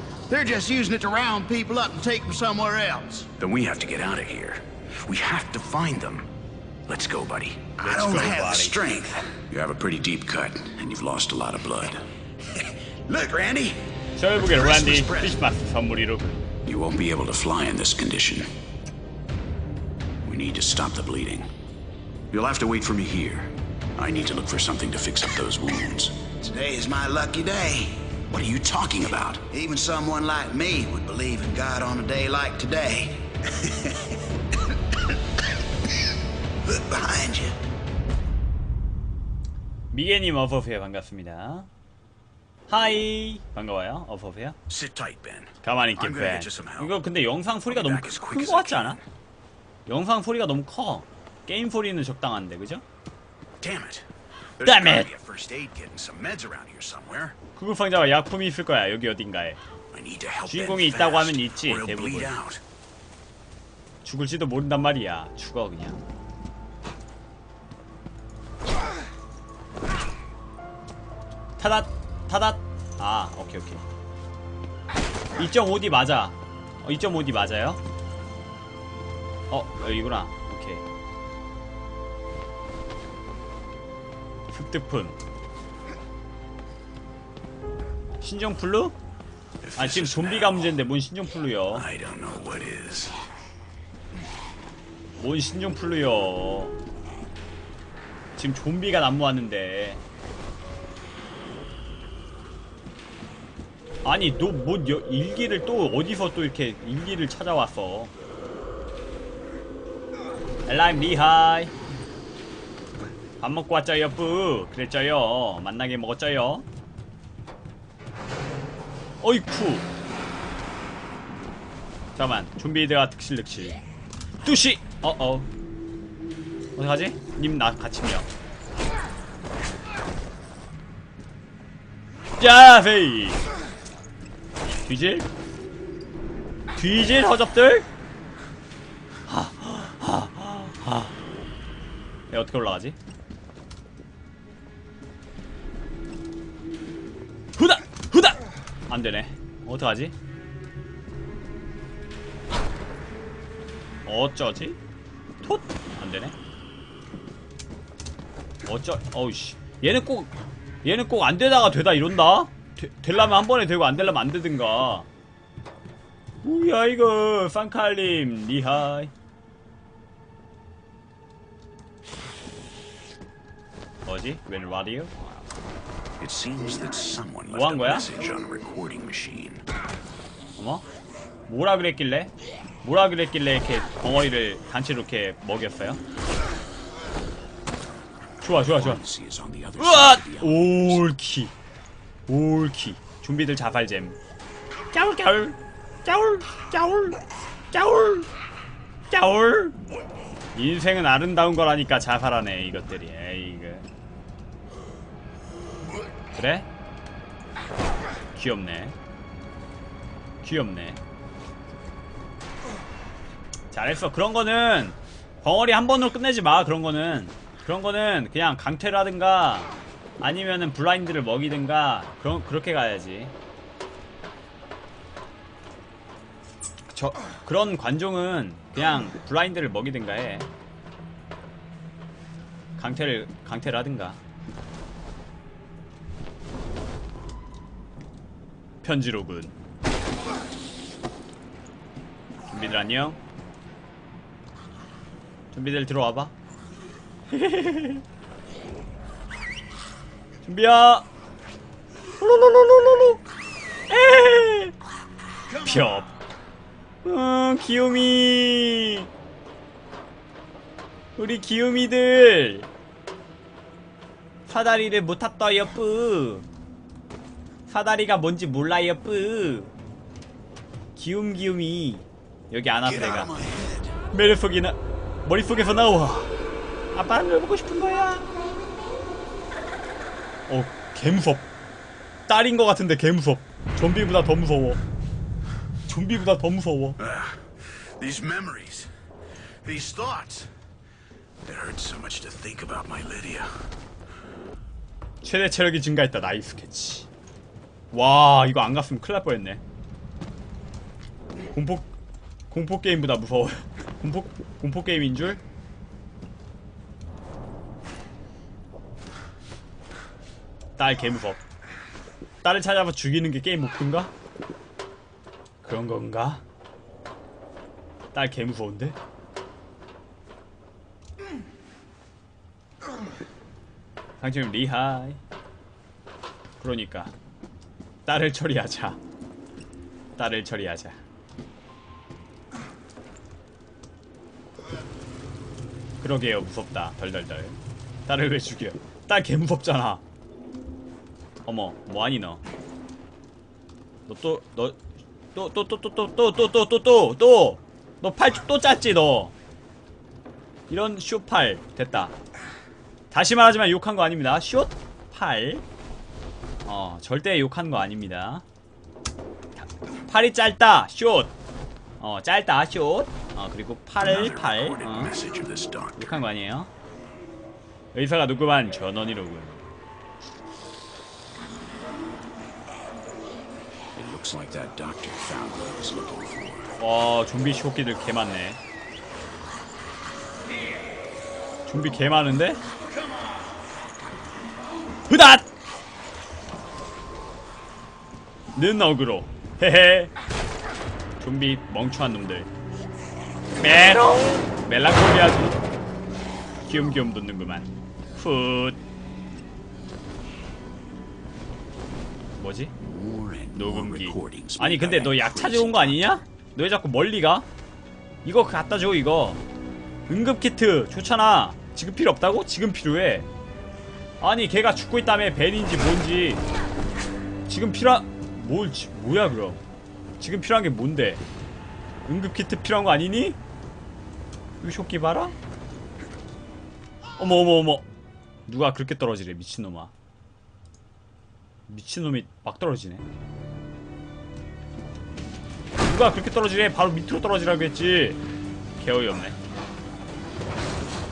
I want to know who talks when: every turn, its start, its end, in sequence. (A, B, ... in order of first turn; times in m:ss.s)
0:00.3-0:03.2 A
0:03.2-0:06.3 B
0:06.9-0:12.0 B
0:07.8-0:08.8 C
0:08.1-0:08.6 A
0:13.1-0:13.4 A
0:13.1-0:13.8 B
0:14.2-0:16.4 C
0:14.4-0:15.4 B
0:16.6-0:18.5 B
0:20.2-0:21.5 B
0:22.3-0:26.5 B
0:26.5-0:27.9 A
0:28.3-0:29.7 B
0:29.6-0:34.1 A
0:36.6-0:37.6 A
0:39.9-0:41.7 C
0:42.7-0:44.6 C
0:44.7-0:47.0 B
0:45.6-0:49.0 C
0:47.7-0:49.0 B
0:49.8-0:52.8 C
0:53.6-0:54.1 B
0:54.6-0:57.4 B
0:54.6-0:55.1 C
0:57.6-0:59.6 C
0:59.9-1:02.6 B
1:00.4-1:02.4 C
1:04.0-1:06.0 C
1:11.6-1:13.8 C
1:15.4-1:17.8 C
1:19.5-1:20.8 C
1:24.5-1:25.2 C
1:28.2-1:29.0 C
1:29.6-1:30.8 B
1:29.8-1:31.9 C
1:31.7-1:33.2 B
1:35.2-1:36.7 C
1:38.4-1:40.0 C
1:44.0-1:48.1 C
1:50.7-1:51.7 C
1:53.4-1:56.6 C
1:59.2-1:59.9 C
2:02.2-2:03.8 C
2:04.4-2:05.5 C
2:06.8-2:08.3 C
2:12.4-2:13.4 C
2:14.8-2:15.3 C
2:16.7-2:17.8 C
2:19.3-2:21.1 C
2:22.3-2:23.0 C
2:27.6-2:30.1 C
2:34.0-2:34.8 C
2:35.4-2:36.3 C
2:38.6-2:40.3 C
2:40.8-2:45.1 C
2:46.4-2:49.1 C
2:54.0-2:55.4 C
2:56.2-2:59.6 B
2:57.5-2:58.1 C
3:00.6-3:00.8 C
3:01.5-3:02.3 C
3:02.8-3:06.0 C
3:08.4-3:09.0 C
3:08.6-3:11.0 B
3:09.8-3:11.5 C
3:12.3-3:14.2 C
3:14.9-3:17.2 C
3:17.7-3:18.3 C
3:19.1-3:19.8 C
3:20.5-3:23.8 C
3:26.4-3:26.7 C
3:28.3-3:28.9 C
3:30.4-3:31.0 C
3:33.7-3:43.3 C
3:46.9-3:50.5 C
3:52.8-3:54.2 C
3:58.8-3:59.5 C
4:02.5-4:03.2 C
4:05.5-4:06.3 C
4:07.3-4:08.0 C
4:10.4-4:11.0 C
4:12.2-4:13.2 C
4:13.9-4:14.7 C
4:15.6-4:16.1 C
4:17.0-4:19.1 C
4:21.2-4:22.7 C
4:24.5-4:26.4 C
4:27.7-4:29.7 C
4:31.0-4:33.4 C
4:32.8-4:33.1 A
4:33.1-4:34.0 B
4:34.1-4:36.3 C
4:36.9-4:38.3 C
4:40.5-4:41.5 C
4:42.3-4:44.8 C
4:45.9-4:47.0 C
4:47.0-4:48.9 B
4:49.6-4:50.5 B
4:51.4-4:53.5 B
4:55.2-4:57.1 C
4:57.9-4:59.6 C
5:01.5-5:01.9 C
5:02.5-5:05.4 C
5:10.8-5:11.4 C
5:12.4-5:14.1 C
5:15.6-5:16.4 C
5:18.1-5:19.0 C
5:24.2-5:25.2 C
5:26.6-5:27.1 C
5:28.0-5:29.0 C
5:30.2-5:31.0 C
5:36.0-5:40.0 C
5:41.4-5:42.4 C
5:44.1-5:44.8 C
5:45.3-5:49.3 C
5:50.7-5:52.1 C
5:53.1-5:55.6 C
5:56.6-5:58.4 C
6:00.1-6:01.3 C
6:02.0-6:05.1 C
6:04.0-6:06.2 B
6:06.0-6:06.7 C
6:07.9-6:09.6 C
6:13.9-6:16.8 B
6:16.8-6:18.6 C
6:21.7-6:22.6 C
6:25.1-6:25.4 C
6:28.5-6:30.1 C
6:31.2-6:32.5 C
6:33.6-6:35.6 C
6:36.7-6:38.8 C
6:42.4-6:42.7 C
6:42.8-6:46.0 B
6:43.5-6:47.5 C
6:48.2-6:49.4 C
6:50.1-6:53.3 C
6:54.2-6:56.4 C
6:57.5-6:59.6 C
7:00.2-7:01.2 C
7:02.0-7:03.4 C
7:04.6-7:05.3 C
7:07.2-7:07.8 C
7:08.5-7:09.9 C
7:11.7-7:13.0 C
7:15.8-7:18.2 C
7:18.8-7:19.4 C